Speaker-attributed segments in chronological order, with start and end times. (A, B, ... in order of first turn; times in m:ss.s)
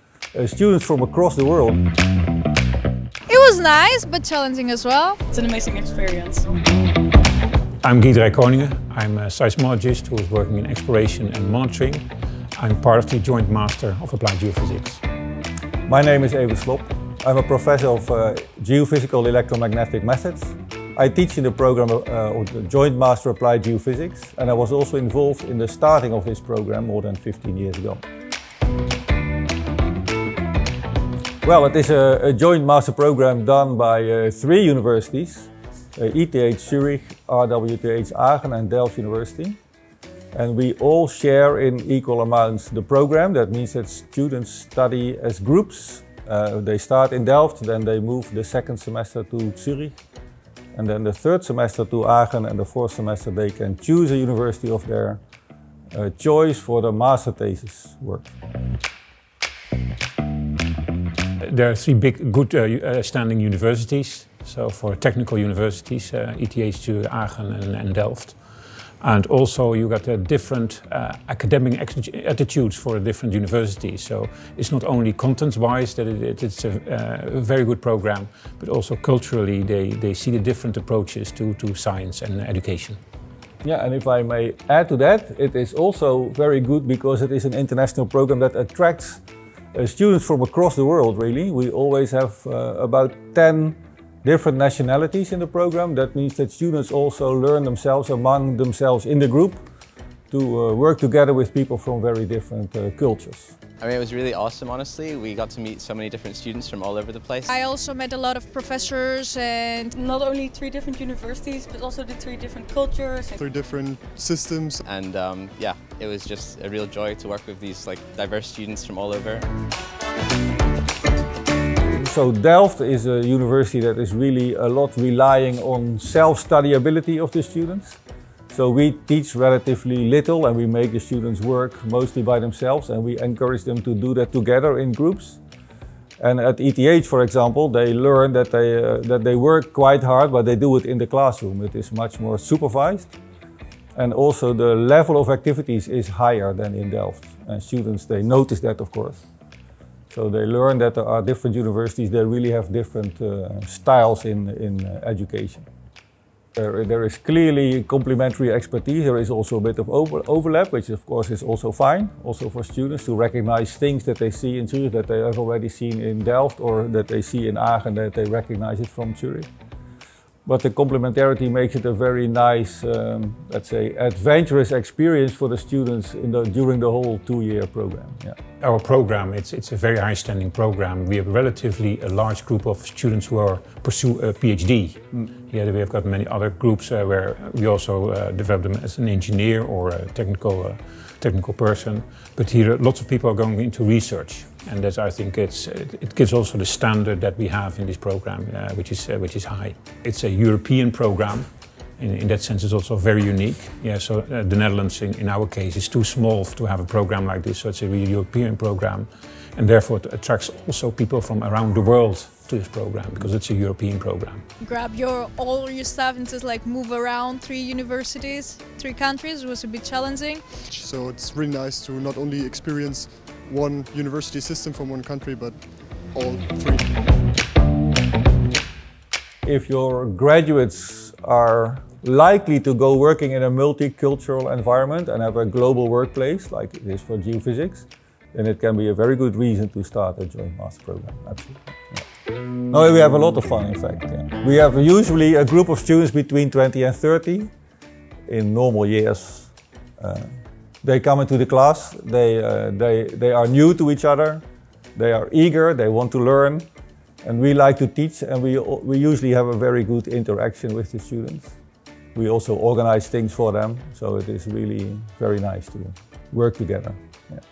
0:00.3-0:01.8 A
0:03.3-0:05.2 B
0:05.3-0:06.5 C
0:07.8-0:12.0 D
0:12.6-0:15.0 D
0:15.9-0:28.0 A
0:31.4-0:39.6 A
0:40.3-0:50.0 A
0:50.7-0:55.2 A
0:55.9-0:58.3 A
1:01.4-1:08.4 D
1:09.0-1:23.0 D
1:23.6-1:29.2 A
1:29.7-1:39.6 A
1:40.3-1:43.6 A
1:43.8-1:47.6 E
1:47.5-1:50.0 B
1:49.9-1:53.5 C
1:53.4-1:54.9 F
1:54.9-1:59.5 E
2:01.9-2:08.0 A
2:08.5-2:15.4 A
2:16.2-2:23.1 A
2:24.0-2:29.2 A
2:30.1-2:35.7 A
2:36.6-2:49.5 A
2:50.5-2:58.4 A
2:58.6-3:21.5 D
3:22.0-3:34.4 D
3:34.6-3:40.5 B
3:40.7-3:46.9 F
3:49.5-4:02.0 A
4:02.7-4:07.5 A
4:08.3-4:10.3 A
4:10.8-4:14.4 A
4:15.0-4:16.7 A
4:17.2-4:21.5 A
4:22.2-4:27.4 A